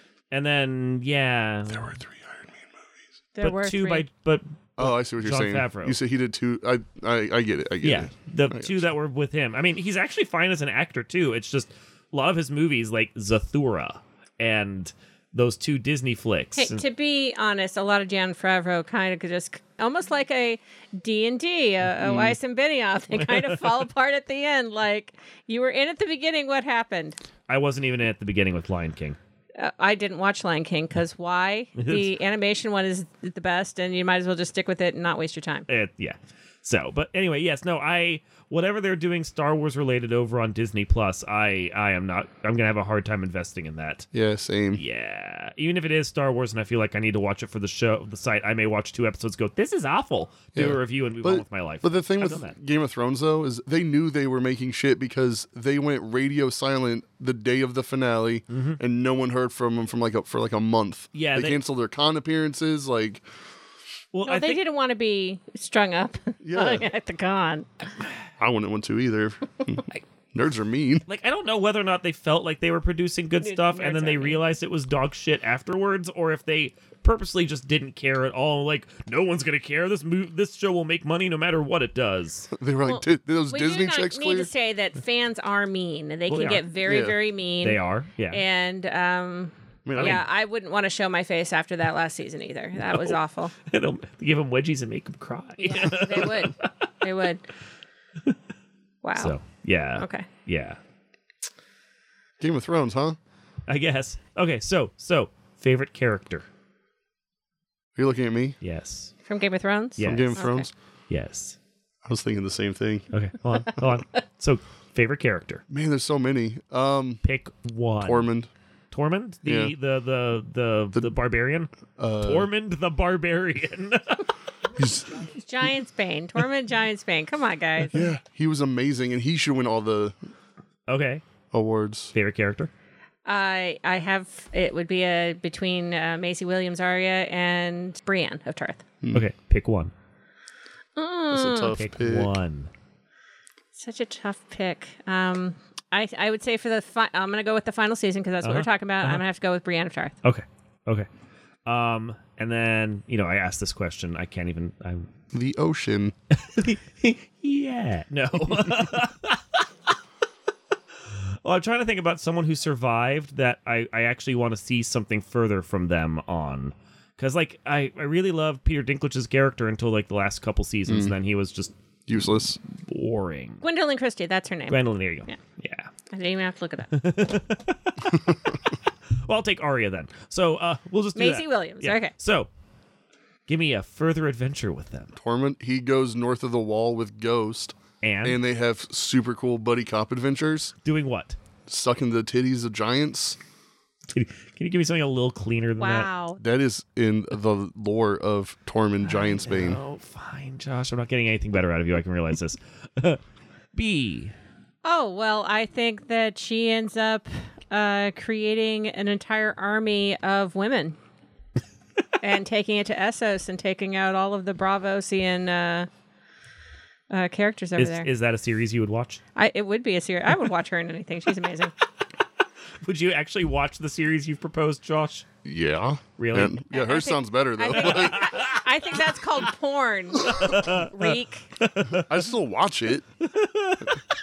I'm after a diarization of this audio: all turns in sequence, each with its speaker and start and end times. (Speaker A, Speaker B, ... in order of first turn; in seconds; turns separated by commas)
Speaker A: 0.3-2.0, Speaker B: 1.7-2.7, Speaker C: 3.4-4.0, Speaker A: 3.4-6.0, Speaker B: 4.8-8.9, Speaker A: 7.8-16.8, Speaker C: 16.6-27.2, Speaker B: 22.0-22.4, Speaker A: 23.1-23.7, Speaker A: 27.5-29.2, Speaker C: 29.6-35.7, Speaker A: 31.8-32.1, Speaker A: 35.7-44.1, Speaker B: 44.1-44.8, Speaker A: 44.8-52.5, Speaker B: 50.5-63.2, Speaker A: 58.5-58.8, Speaker A: 61.1-61.6, Speaker A: 64.1-64.6, Speaker C: 64.2-67.7, Speaker B: 66.4-66.9, Speaker B: 68.4-71.0, Speaker A: 71.1-82.5, Speaker C: 73.4-74.4, Speaker B: 82.5-84.5, Speaker C: 82.8-93.5, Speaker A: 86.3-86.7, Speaker B: 86.8-87.2, Speaker A: 87.6-88.4, Speaker B: 89.8-90.2, Speaker A: 90.0-90.2, Speaker A: 92.9-96.7, Speaker C: 95.6-97.5, Speaker C: 99.0-99.3, Speaker A: 99.2-100.8, Speaker C: 100.0-100.3, Speaker B: 102.4-103.2, Speaker A: 103.7-106.4, Speaker B: 108.0-108.6, Speaker A: 108.6-109.1, Speaker C: 109.2-110.7, Speaker A: 110.0-110.5, Speaker B: 110.0-110.7, Speaker A: 111.1-111.6, Speaker B: 112.0-113.0, Speaker A: 113.1-115.6, Speaker B: 115.7-117.2, Speaker A: 117.2-118.3, Speaker B: 118.0-118.5, Speaker A: 118.9-124.2, Speaker B: 119.4-119.7, Speaker B: 122.0-122.5, Speaker B: 124.8-125.3, Speaker C: 125.3-128.0, Speaker B: 127.9-130.2, Speaker A: 130.9-131.2, Speaker B: 131.5-132.1, Speaker A: 132.1-132.7, Speaker C: 133.2-138.8, Speaker A: 139.1-139.9, Speaker C: 140.9-141.8, Speaker B: 141.3-142.3, Speaker A: 141.6-142.7, Speaker C: 143.8-150.2, Speaker A: 148.4-149.2, Speaker A: 150.2-151.1, Speaker A: 151.7-155.1, Speaker B: 155.3-156.1, Speaker A: 156.3-159.7, Speaker A: 161.1-171.7, Speaker B: 170.9-171.1, Speaker B: 172.1-172.6, Speaker A: 172.7-173.6, Speaker C: 173.6-175.4, Speaker A: 174.7-175.9, Speaker C: 176.1-176.9, Speaker A: 176.9-182.5, Speaker C: 181.2-182.1, Speaker A: 183.5-185.1, Speaker B: 185.2-190.7, Speaker A: 188.0-188.4, Speaker A: 190.8-191.4, Speaker B: 191.7-193.4, Speaker A: 194.1-196.1, Speaker C: 195.8-196.4, Speaker B: 196.4-199.8, Speaker A: 199.0-203.2, Speaker A: 203.7-204.3, Speaker C: 204.8-211.0, Speaker C: 212.2-215.9, Speaker C: 217.1-218.1, Speaker A: 217.8-219.2, Speaker C: 219.3-221.7, Speaker A: 222.8-225.3, Speaker B: 225.4-228.3, Speaker A: 226.2-226.6, Speaker C: 226.7-231.5, Speaker A: 227.8-228.6, Speaker A: 230.2-232.1, Speaker B: 231.9-233.0, Speaker A: 233.2-234.0